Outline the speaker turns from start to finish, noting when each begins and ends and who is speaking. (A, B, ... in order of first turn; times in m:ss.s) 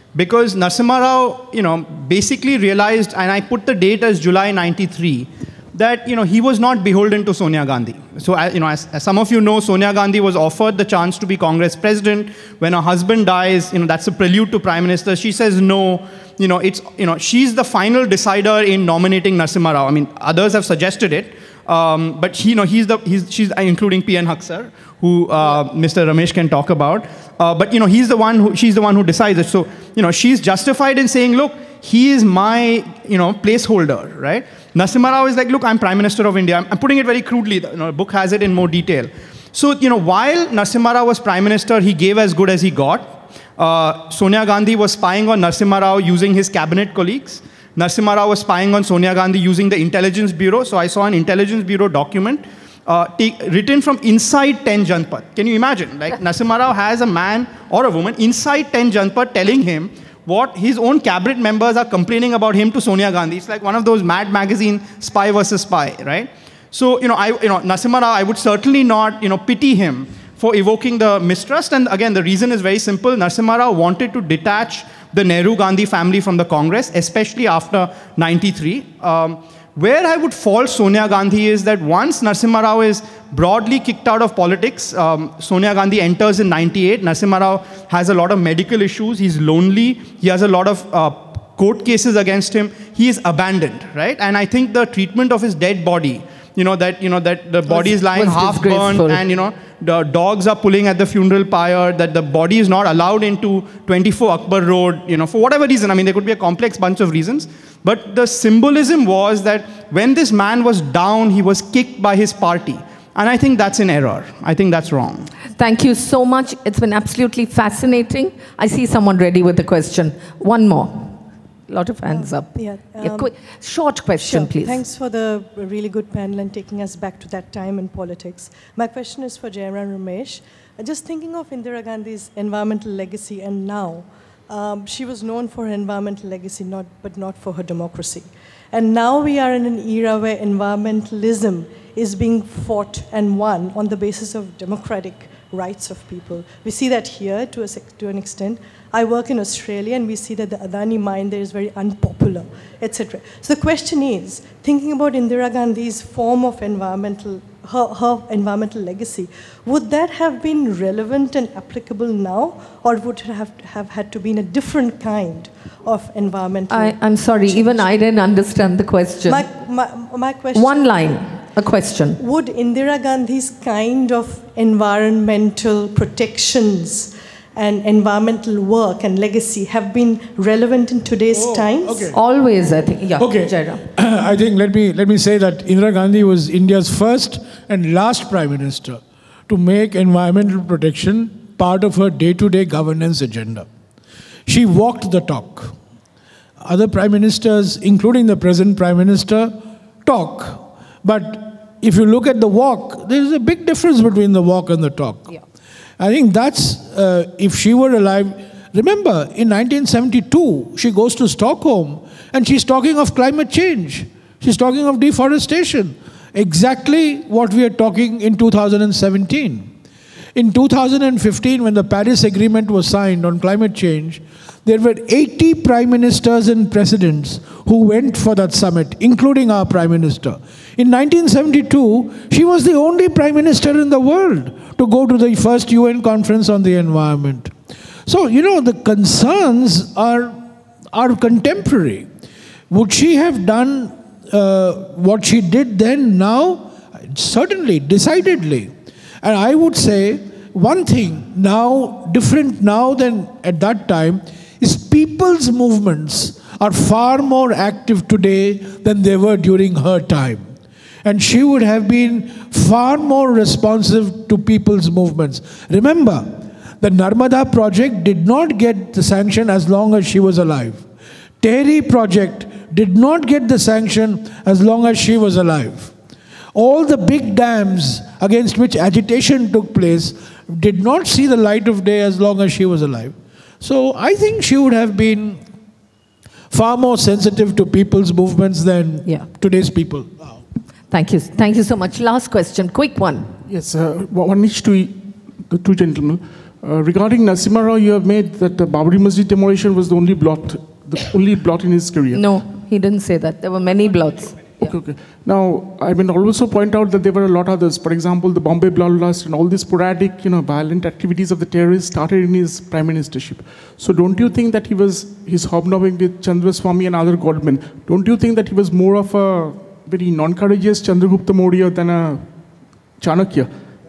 0:00.1-1:55.3 A
1:37.7-1:39.2 B
1:55.6-2:01.2 B
2:01.7-2:04.8 B
2:02.1-2:03.3 C
2:04.2-2:47.9 C
2:46.7-2:49.4 B
2:49.2-2:51.1 C
2:50.5-2:52.2 B
2:52.2-3:02.1 C
3:01.3-3:02.2 D
3:02.1-3:03.8 B
3:03.2-3:13.7 D
3:14.5-3:15.8 D
3:16.6-3:25.4 D
3:26.0-3:39.7 D
3:40.3-3:57.5 D
3:58.0-4:02.1 D
4:02.7-4:08.7 D
4:09.2-4:20.5 D
4:21.0-4:30.8 D
4:31.4-4:35.9 D
4:36.5-4:45.4 D
4:46.5-4:50.4 D
4:50.9-4:53.3 B
4:53.5-5:02.3 E
5:02.1-5:04.7 B
5:04.6-5:22.3 E
5:23.0-5:23.5 E